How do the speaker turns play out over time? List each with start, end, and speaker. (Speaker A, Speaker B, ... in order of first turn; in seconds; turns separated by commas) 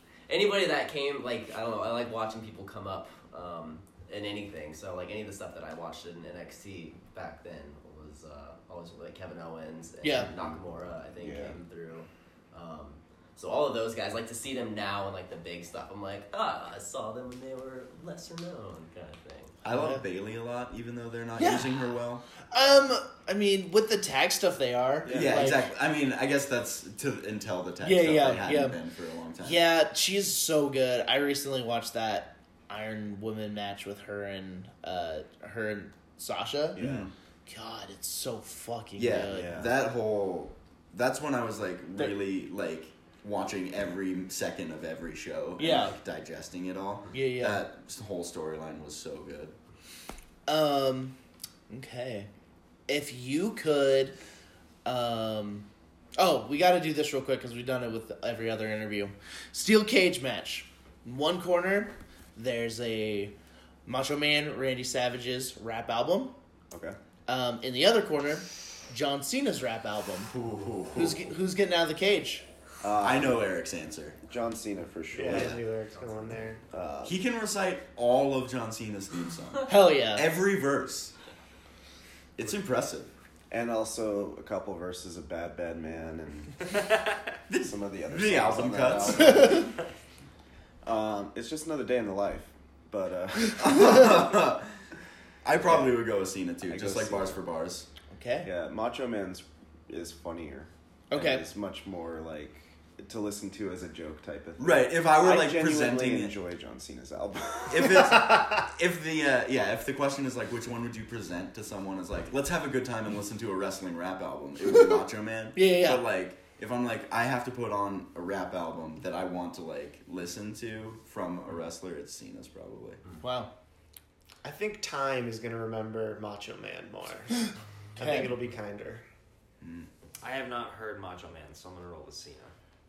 Speaker A: 0.3-19.6, Speaker B: 10.0-10.3, Speaker C: 10.3-10.6, Speaker C: 11.1-11.6, Speaker D: 19.6-22.2, Speaker B: 19.6-20.0, Speaker B: 21.4-21.9, Speaker B: 22.5-25.7, Speaker D: 25.1-29.6, Speaker B: 27.8-28.8, Speaker B: 29.4-36.8, Speaker C: 36.8-37.1, Speaker D: 36.8-37.1, Speaker B: 37.5-39.5, Speaker D: 39.0-49.5, Speaker C: 39.2-39.7, Speaker B: 45.6-46.0, Speaker B: 47.1-47.6, Speaker B: 50.5-51.2, Speaker B: 51.7-52.3, Speaker B: 52.9-54.2, Speaker B: 54.9-63.3, Speaker B: 63.9-66.3, Speaker C: 66.7-67.0, Speaker B: 67.3-70.3, Speaker D: 70.3-71.2, Speaker B: 70.9-72.5, Speaker C: 72.8-73.5, Speaker D: 73.0-74.2, Speaker C: 74.2-75.6, Speaker E: 75.1-76.6, Speaker D: 75.3-75.6, Speaker C: 76.7-77.2, Speaker D: 77.0-81.1, Speaker B: 79.7-80.2, Speaker D: 82.4-83.1, Speaker C: 83.5-86.7, Speaker D: 87.5-89.7, Speaker C: 87.6-89.7, Speaker B: 89.2-89.7, Speaker C: 90.8-94.4, Speaker D: 93.6-94.7, Speaker D: 95.4-97.9, Speaker C: 95.6-96.0, Speaker C: 96.7-97.4, Speaker B: 98.1-98.5, Speaker C: 98.4-108.2, Speaker B: 101.1-101.5, Speaker D: 104.6-106.3, Speaker D: 107.7-123.0, Speaker E: 108.1-108.6, Speaker B: 115.5-116.0, Speaker B: 123.2-123.5, Speaker E: 124.4-129.0, Speaker B: 128.0-128.3, Speaker D: 129.6-129.9, Speaker F: 130.2-132.5